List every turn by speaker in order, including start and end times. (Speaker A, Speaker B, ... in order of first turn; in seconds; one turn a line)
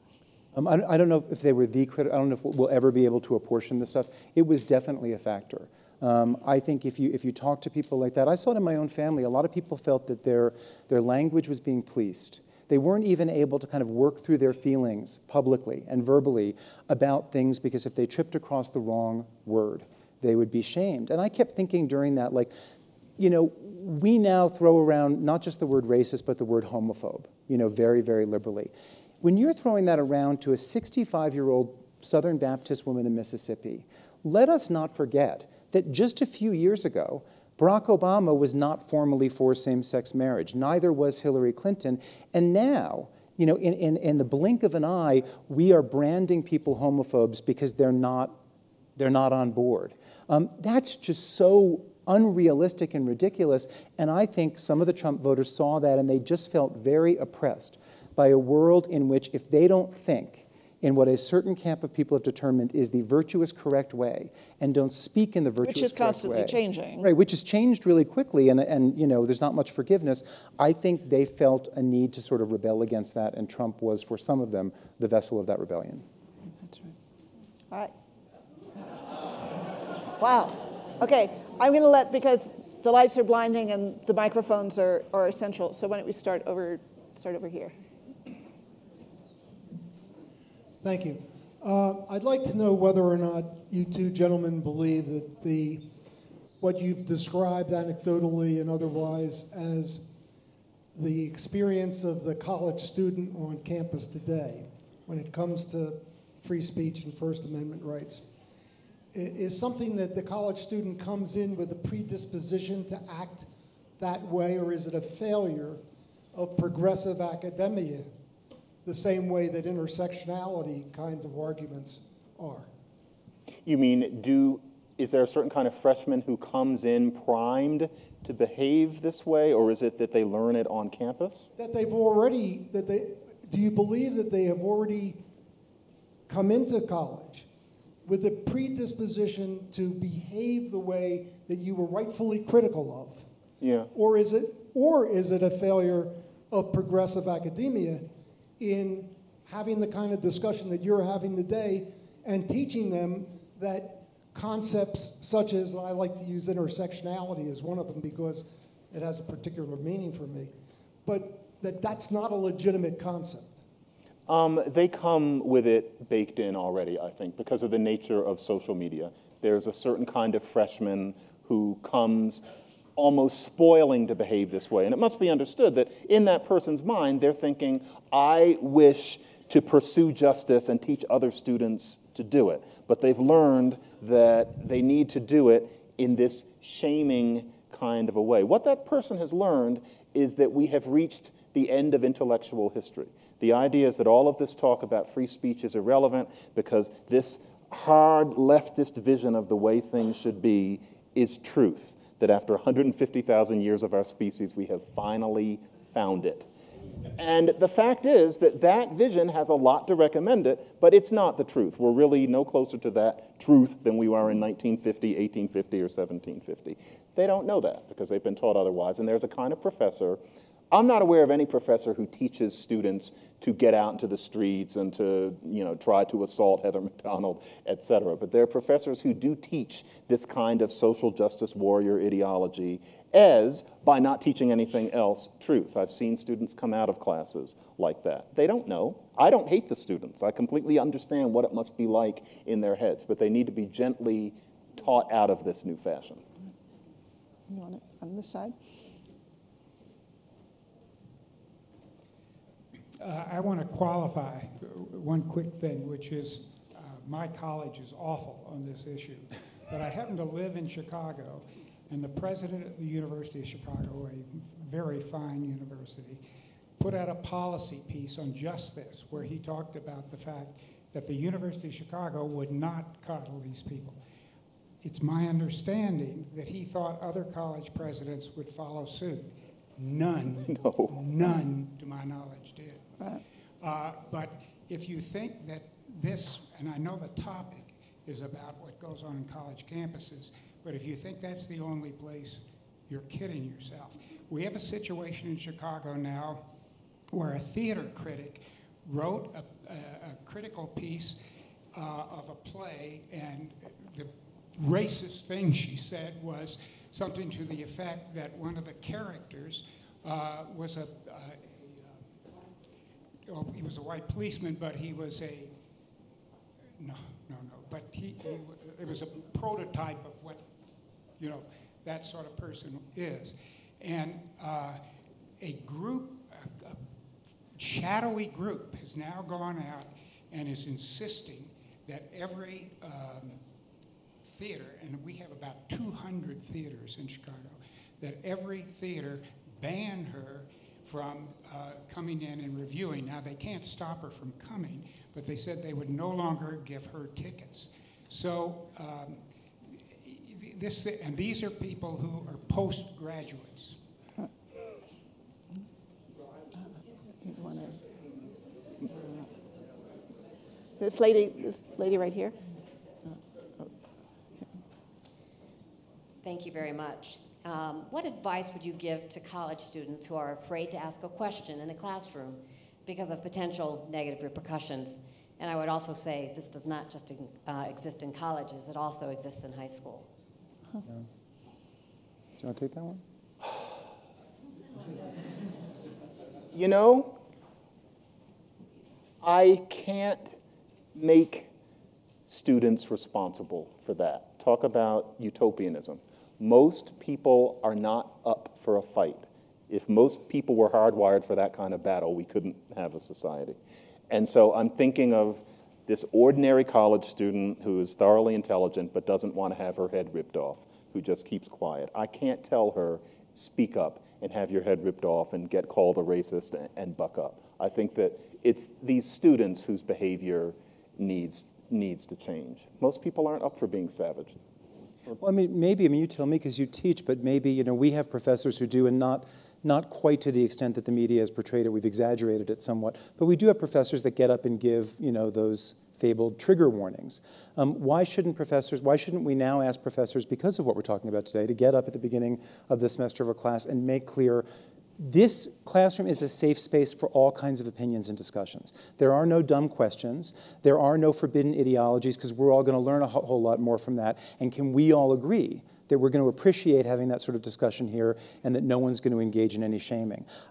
Speaker A: 0.5-22.5
Speaker A: 23.2-48.4
Speaker A: 49.0-76.0
Speaker B: 65.6-67.1
Speaker B: 76.6-76.9
Speaker B: 80.2-87.7
Speaker C: 90.8-95.9
Speaker C: 96.6-100.1
Speaker C: 100.9-108.4
Speaker C: 109.1-118.1
Speaker C: 118.8-122.7
Speaker D: 123.6-131.5
Speaker C: 131.6-135.2
Speaker C: 136.3-137.5
Speaker C: 138.0-143.3
Speaker D: 143.6-143.9
Speaker C: 143.9-160.5
Speaker C: 161.0-163.6
Speaker D: 164.3-172.4
Speaker D: 172.9-206.5
Speaker D: 207.2-220.2
Speaker D: 220.7-246.2
Speaker B: 247.5-248.5
Speaker E: 253.0-266.2
Speaker E: 266.8-274.0
Speaker E: 274.8-282.8
Speaker D: 280.4-281.0
Speaker E: 283.6-296.5
Speaker E: 297.1-301.2
Speaker E: 301.7-312.0
Speaker E: 313.3-315.6
Speaker E: 316.8-320.4
Speaker E: 321.2-324.8
Speaker E: 325.4-326.8
Speaker E: 327.5-333.4
Speaker E: 334.3-349.2
Speaker E: 350.0-353.8
Speaker B: 357.2-357.8
Speaker B: 358.9-359.2
Speaker B: 360.8-362.4
Speaker F: 366.2-380.1
Speaker A: 382.4-383.0
Speaker D: 386.5-387.1
Speaker D: 389.2-390.3
Speaker D: 390.9-391.5
Speaker D: 392.3-403.6
Speaker D: 404.1-424.4
Speaker A: 425.1-444.4
Speaker A: 445.0-460.2